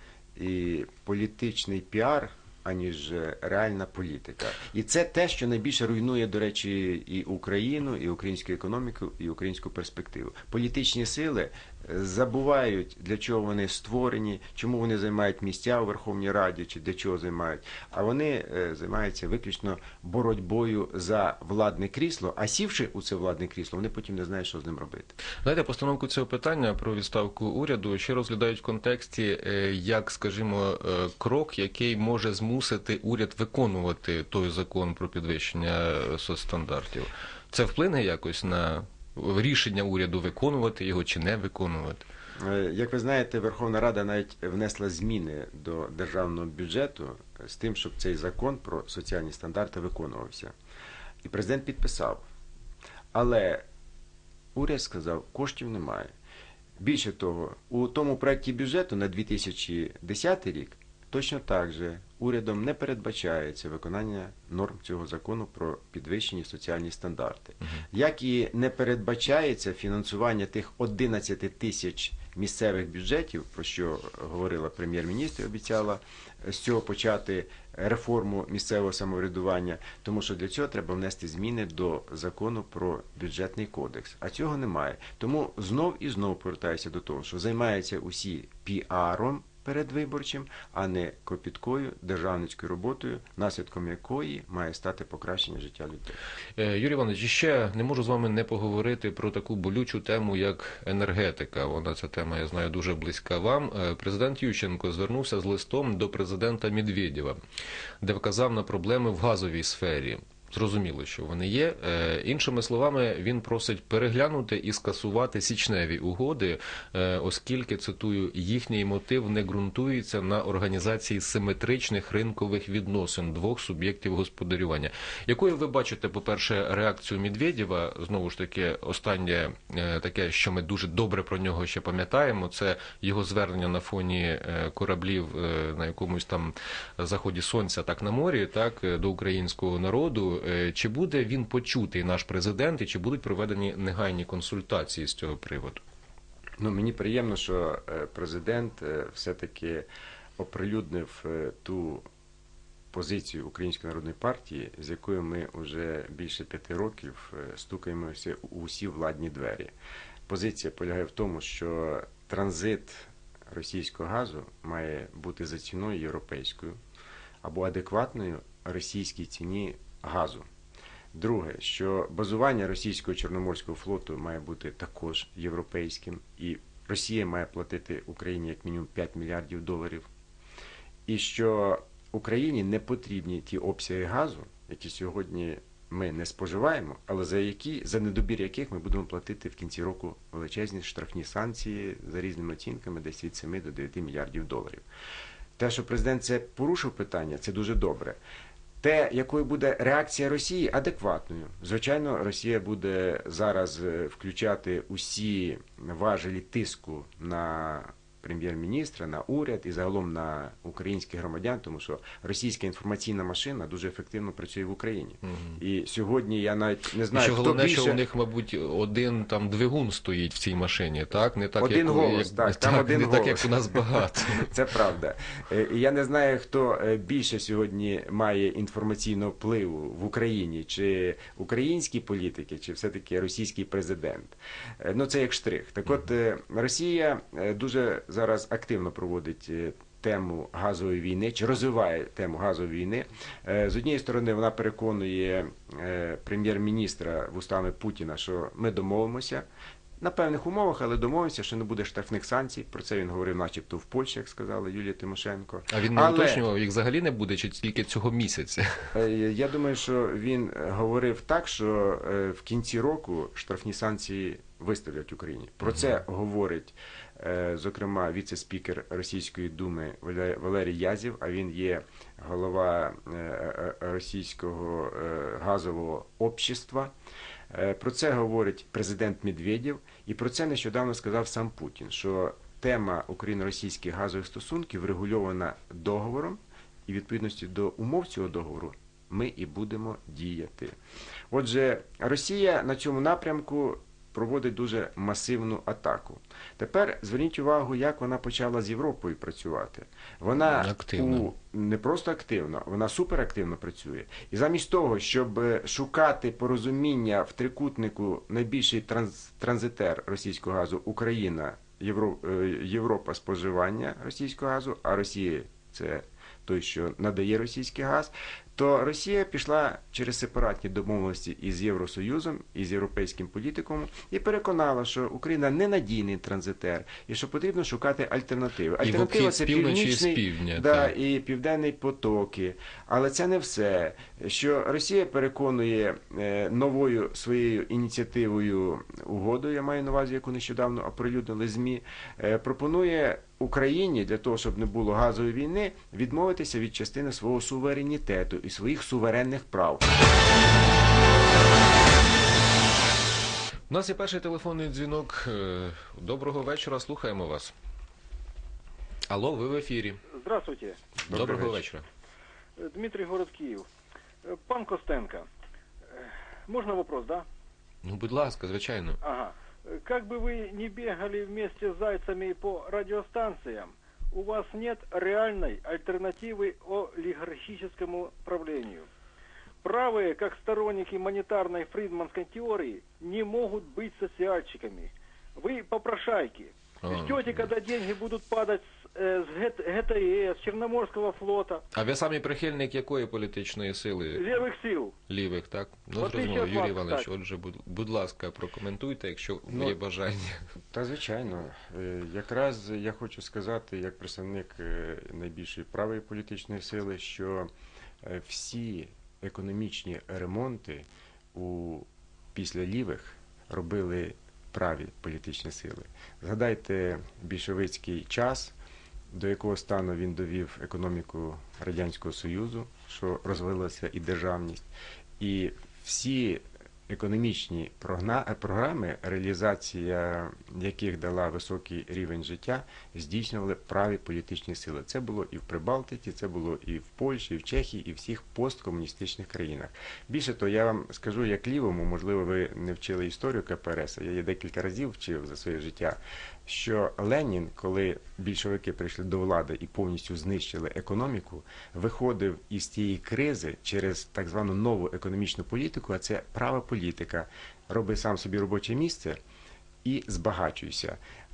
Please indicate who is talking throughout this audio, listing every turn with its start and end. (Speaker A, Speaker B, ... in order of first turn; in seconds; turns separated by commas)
Speaker A: 0.4-25.1, Speaker B: 25.4-42.0, Speaker A: 42.4-50.5, Speaker A: 51.2-52.2, Speaker A: 53.1-53.6, Speaker A: 54.5-56.1, Speaker A: 56.8-96.2, Speaker B: 96.6-107.4, Speaker B: 108.0-145.8, Speaker A: 146.6-149.9, Speaker A: 150.4-152.0, Speaker A: 152.9-159.7, Speaker A: 160.3-166.8, Speaker A: 167.4-170.5, Speaker A: 171.1-180.1, Speaker A: 181.1-194.8, Speaker A: 195.6-198.2, Speaker A: 198.8-218.0, Speaker B: 215.2-215.6, Speaker B: 217.1-224.5, Speaker A: 221.6-223.8, Speaker A: 224.3-249.5, Speaker A: 250.0-256.4, Speaker B: 255.7-258.9, Speaker A: 258.9-276.9, Speaker A: 277.5-290.7, Speaker A: 291.3-349.9, Speaker B: 300.4-301.3, Speaker B: 328.8-330.9, Speaker B: 353.7-357.5, Speaker B: 359.1-360.0, Speaker C: 360.1-360.8, Speaker A: 361.1-361.6, Speaker B: 361.1-361.9, Speaker C: 362.6-363.7, Speaker C: 364.2-365.3, Speaker C: 365.9-367.2, Speaker B: 367.8-369.0, Speaker C: 369.0-378.9, Speaker C: 379.6-391.6, Speaker B: 386.8-387.5, Speaker B: 391.7-394.4, Speaker C: 394.1-394.9, Speaker B: 395.1-400.4, Speaker C: 396.0-397.1, Speaker A: 399.5-399.8, Speaker A: 400.7-407.5, Speaker A: 408.0-418.6, Speaker A: 419.1-424.6, Speaker A: 425.2-459.2, Speaker A: 459.8-461.0